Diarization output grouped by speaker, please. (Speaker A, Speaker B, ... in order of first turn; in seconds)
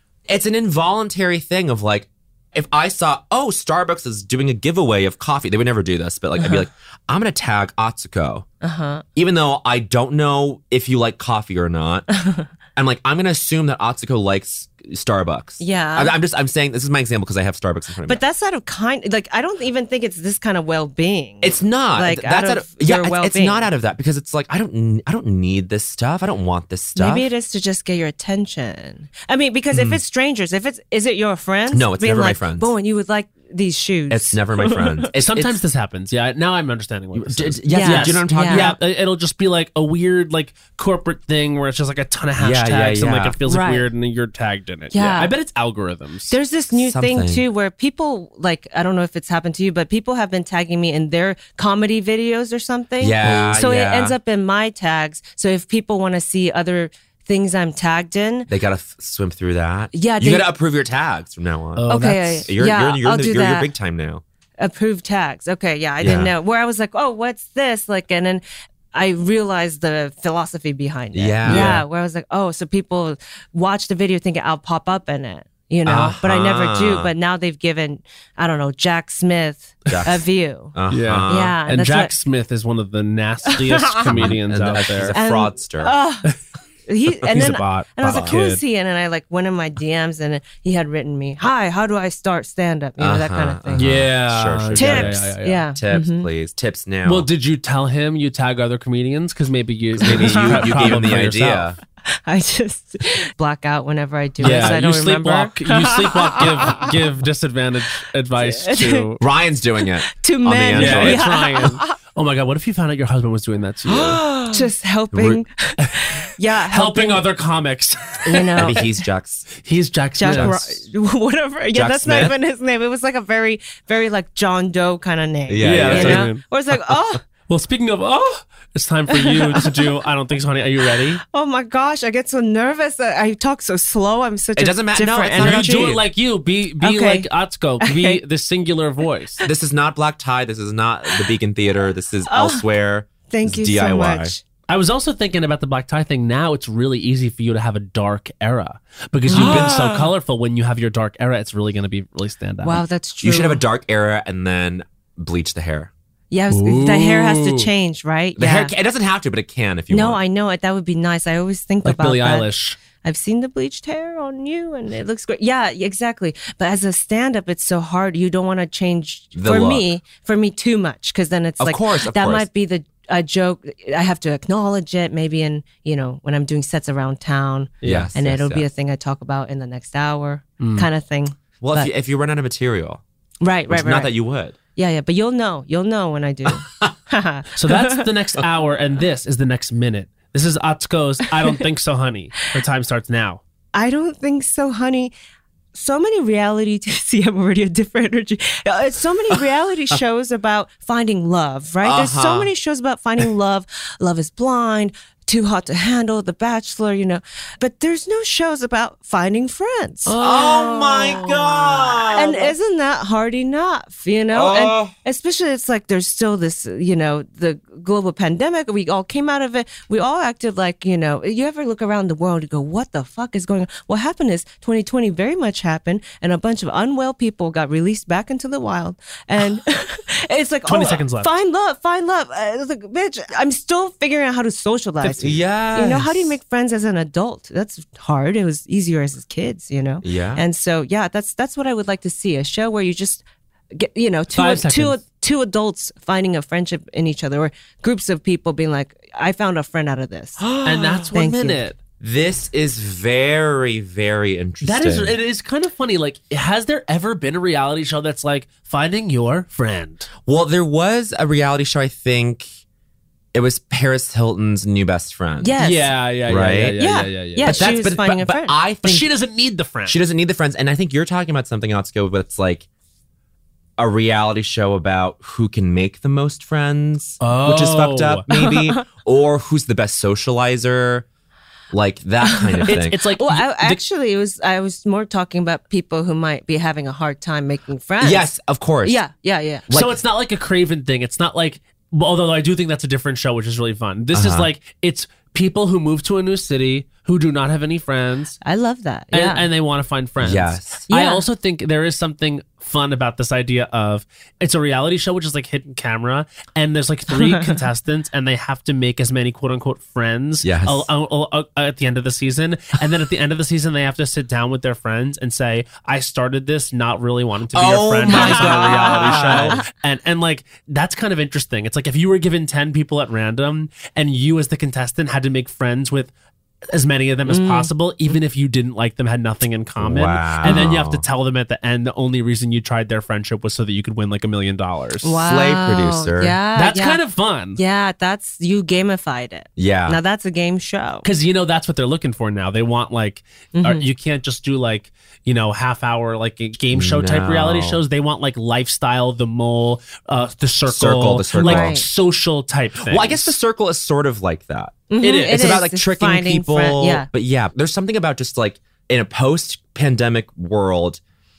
Speaker A: 0.3-8.5, 9.2-12.1, 12.8-18.2, 21.4-27.3, 29.7-30.0, 31.7-32.7, 34.1-35.6, 37.1-38.8, 42.4-43.4, 46.7-47.4, 53.0-54.2, 58.5-61.9, 62.4-64.2, 66.0-66.3, 71.1-71.8, 75.9-77.1, 79.9-81.5, 84.1-85.9, 88.0-88.4, 93.0-97.3, 100.0-101.8, 104.4-104.8, 109.2-111.3, 113.8-115.4, 118.5-119.5, 120.2-120.6, 121.7-122.3, 125.5-126.3, 134.6-136.0, 139.4-144.3, 149.3-150.1, 153.2-155.9, 158.3-160.2, 169.3-169.8, 171.6-172.4, 177.8-178.7, 181.6-183.0, 183.7-184.5, 186.5-186.9, 201.8-202.5, 210.1-212.5, 214.3-214.9, 235.0-236.4, 240.0-240.4, 250.4-251.1, 252.0-255.2, 260.3-262.5, 263.3-265.6, 266.3-266.8, 267.4-269.1, 269.9-272.6, 273.8-281.1, 281.7-283.0, 288.0-289.0, 289.7-290.0, 294.1-294.5, 300.2-300.9, 310.4-310.9, 317.5-319.6, 329.8-331.0, 335.1-336.4, 339.6-340.0, 346.7-347.8, 350.7-351.8, 352.8-361.0
Speaker B: 8.6-9.0, 12.1-12.4, 15.6-16.1, 18.1-23.7, 26.9-35.1, 37.7-38.8, 43.5-43.9, 44.9-45.3, 46.3-58.5, 59.9-60.5, 61.9-63.7, 64.6-82.1, 83.5-84.3, 85.1-86.3, 86.9-94.0, 94.7-96.3, 100.1-101.1, 102.1-106.9, 108.4-109.1, 109.9-111.9, 114.5-117.3, 118.2-118.9, 120.2-127.2, 129.1-129.8, 131.2-136.0, 136.8-137.3, 137.8-138.2, 142.3-142.6, 143.3-144.4, 149.3-149.7, 152.6-153.6, 156.3-158.7, 159.9-181.9, 183.4-184.1, 184.8-188.1, 193.7-195.1, 195.7-250.5, 251.1-251.6, 265.4-265.9, 266.8-268.6, 278.3-278.9, 282.2-288.3, 288.8-289.6, 298.4-299.5, 300.9-301.2, 318.1-319.6, 327.3-328.1, 330.4-330.7, 335.0-337.0, 337.5-341.1, 343.5-343.9, 351.3-351.9, 354.9-357.1
Speaker C: 35.1-46.4, 53.2-53.6, 61.7-62.5, 71.5-71.8, 75.9-76.1, 80.9-85.2, 87.3-88.6, 93.7-95.6, 97.0-101.7, 104.4-109.2, 110.7-114.2, 115.8-116.0, 116.7-118.6, 119.6-120.8, 125.6-126.4, 127.5-131.2, 135.3-139.4, 144.7-152.8, 156.5-157.7, 161.8-162.8, 177.8-178.1, 180.6-180.9, 187.6-193.4, 210.1-211.0, 230.7-231.3, 244.3-245.0, 250.6-251.8, 254.6-260.1, 265.6-267.8, 268.8-270.0, 277.2-278.2, 282.7-283.8, 289.7-298.4, 299.1-326.1, 326.7-335.1, 336.5-337.6, 341.0-353.3, 355.0-355.6